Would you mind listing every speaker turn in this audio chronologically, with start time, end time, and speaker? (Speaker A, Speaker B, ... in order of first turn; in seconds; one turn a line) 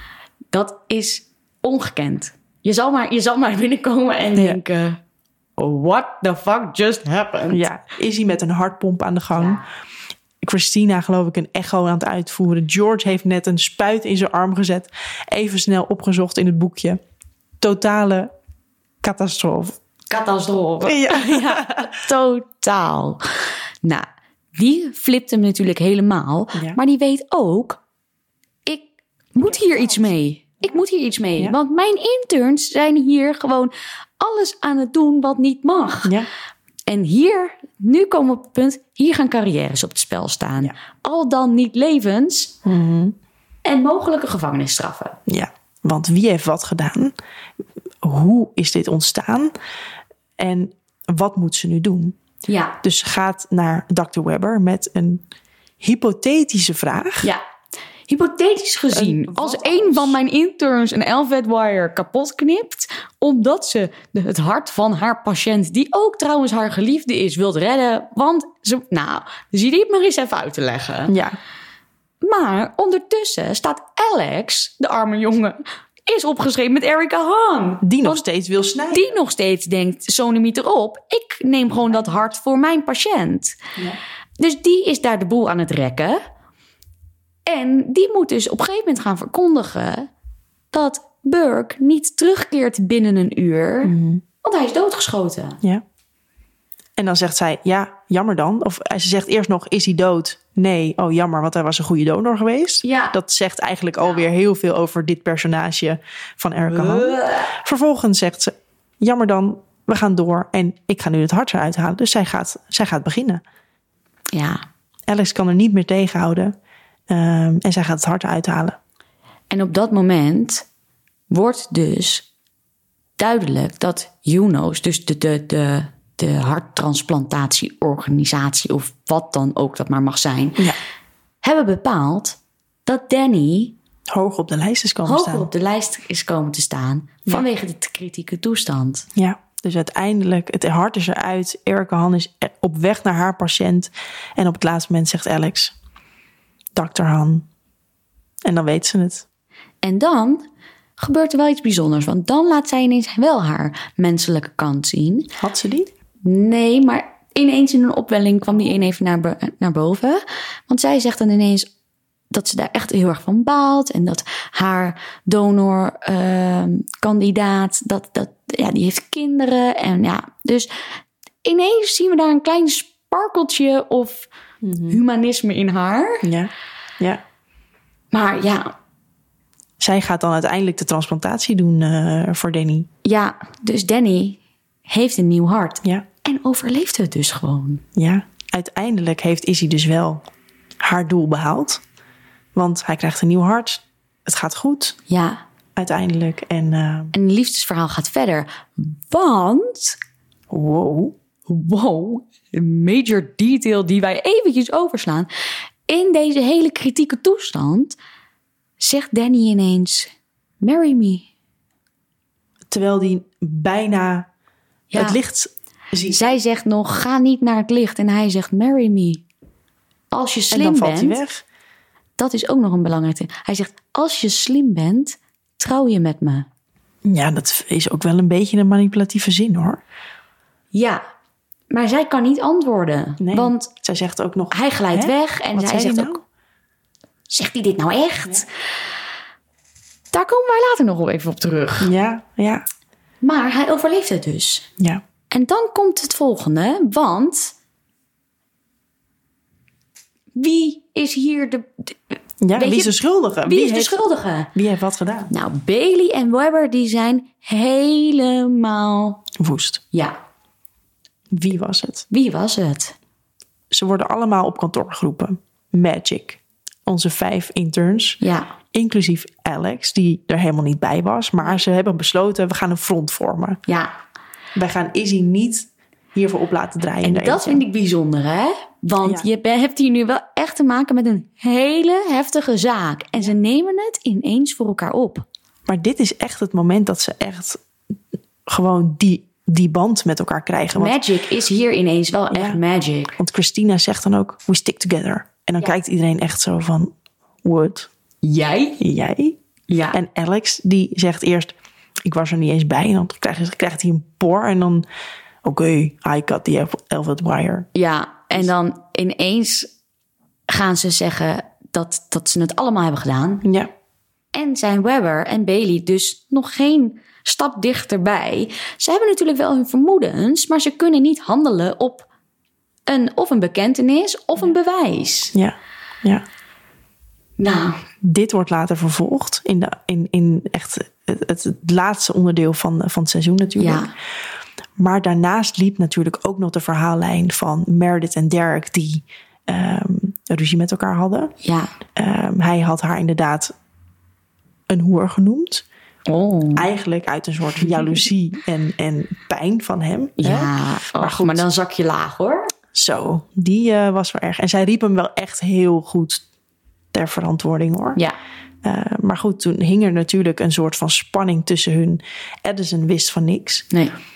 Speaker A: 0.5-5.0
Speaker A: 5.6-7.6
Speaker B: 7.5-9.6
Speaker A: 9.3-9.6
Speaker B: 10.4-17.0
Speaker B: 17.6-18.3
Speaker B: 19.0-19.8
Speaker A: 20.1-27.8
Speaker B: 20.8-21.9
Speaker A: 28.7-36.2
Speaker B: 29.4-30.1
Speaker A: 36.9-42.6
Speaker B: 42.6-43.2
Speaker A: 43.6-45.2
Speaker B: 45.3-47.1
Speaker B: 48.0-49.5
Speaker B: 50.4-52.1
Speaker A: 52.5-52.8
Speaker B: 52.8-55.2
Speaker B: 55.8-57.3
Speaker A: 58.1-71.2
Speaker B: 58.9-60.2
Speaker B: 71.1-71.4
Speaker A: 72.2-78.2
Speaker B: 77.8-79.1
Speaker A: 78.9-83.6
Speaker B: 81.9-82.2
Speaker A: 84.4-86.2
Speaker A: 87.5-90.1
Speaker A: 90.7-95.6
Speaker B: 93.8-94.2
Speaker B: 97.0-113.4
Speaker A: 102.8-103.2
Speaker A: 106.7-107.5
Speaker A: 114.3-114.6
Speaker B: 115.1-116.5
Speaker B: 117.1-118.8
Speaker A: 119.5-120.7
Speaker A: 121.3-122.3
Speaker A: 123.2-130.7
Speaker A: 131.4-133.8
Speaker B: 134.1-135.5
Speaker A: 135.1-139.1
Speaker B: 139.2-145.8
Speaker B: 146.8-147.5
Speaker B: 148.4-149.2
Speaker A: 149.8-150.4
Speaker A: 151.0-155.3
Speaker B: 155.4-155.9
Speaker A: 156.2-161.7
Speaker A: 162.3-170.7
Speaker A: 171.4-174.3
Speaker B: 174.6-175.0
Speaker A: 174.9-176.3
Speaker B: 176.2-177.2
Speaker A: 178.1-178.8
Speaker B: 179.8-182.9
Speaker A: 183.0-187.8
Speaker B: 188.0-190.2
Speaker B: 190.8-191.8
Speaker B: 192.6-195.0
Speaker A: 195.1-195.4
Speaker B: 195.8-197.1
Speaker A: 197.1-200.0
Speaker B: 200.5-201.2
Speaker A: 201.5-205.3
Speaker A: 205.9-208.0
Speaker A: 208.8-211.3
Speaker B: 212.7-214.3
Speaker A: 214.9-215.2
Speaker B: 214.9-216.2
Speaker A: 216.1-219.2
Speaker A: 220.1-221.2
Speaker B: 220.5-221.4
Speaker A: 222.2-226.5
Speaker B: 227.1-229.8
Speaker A: 230.7-231.0
Speaker A: 231.7-233.7
Speaker B: 233.2-236.2
Speaker A: 234.5-236.2
Speaker A: 237.3-238.5
Speaker A: 240.1-241.9
Speaker B: 241.8-242.7
Speaker A: 243.2-244.7
Speaker A: 245.3-247.6
Speaker A: 250.4-252.0
Speaker B: 252.4-254.0
Speaker A: 252.6-254.5
Speaker B: 254.5-255.3
Speaker A: 255.3-259.2
Speaker B: 259.4-259.8
Speaker B: 261.3-262.1
Speaker A: 262.1-262.9
Speaker B: 263.7-268.2
Speaker A: 268.2-268.5
Speaker B: 268.7-273.6
Speaker A: 273.7-273.9
Speaker B: 274.6-277.6
Speaker A: 277.0-285.2
Speaker B: 285.7-287.6
Speaker B: 288.5-291.0
Speaker A: 290.8-293.2
Speaker B: 292.3-292.6
Speaker B: 293.2-296.9
Speaker B: 297.4-297.9
Speaker A: 298.2-298.8
Speaker B: 298.8-299.4
Speaker A: 299.7-300.0
Speaker B: 299.9-301.5
Speaker B: 302.1-304.9
Speaker B: 305.4-307.7
Speaker A: 307.7-309.7
Speaker A: 310.5-313.5
Speaker B: 313.4-313.7
Speaker A: 314.3-322.1
Speaker A: 322.9-325.3
Speaker B: 325.3-326.2
Speaker A: 327.4-327.8
Speaker B: 328.0-333.9
Speaker A: 333.6-333.9
Speaker B: 334.8-341.3
Speaker A: 341.4-341.7
Speaker B: 342.0-343.5
Speaker B: 344.7-345.6
Speaker A: 346.1-346.7
Speaker B: 346.6-351.5
Speaker A: 350.2-352.5
Speaker B: 352.7-356.2
Speaker B: 356.9-358.0
Speaker B: 358.6-363.7
Speaker A: 363.7-364.0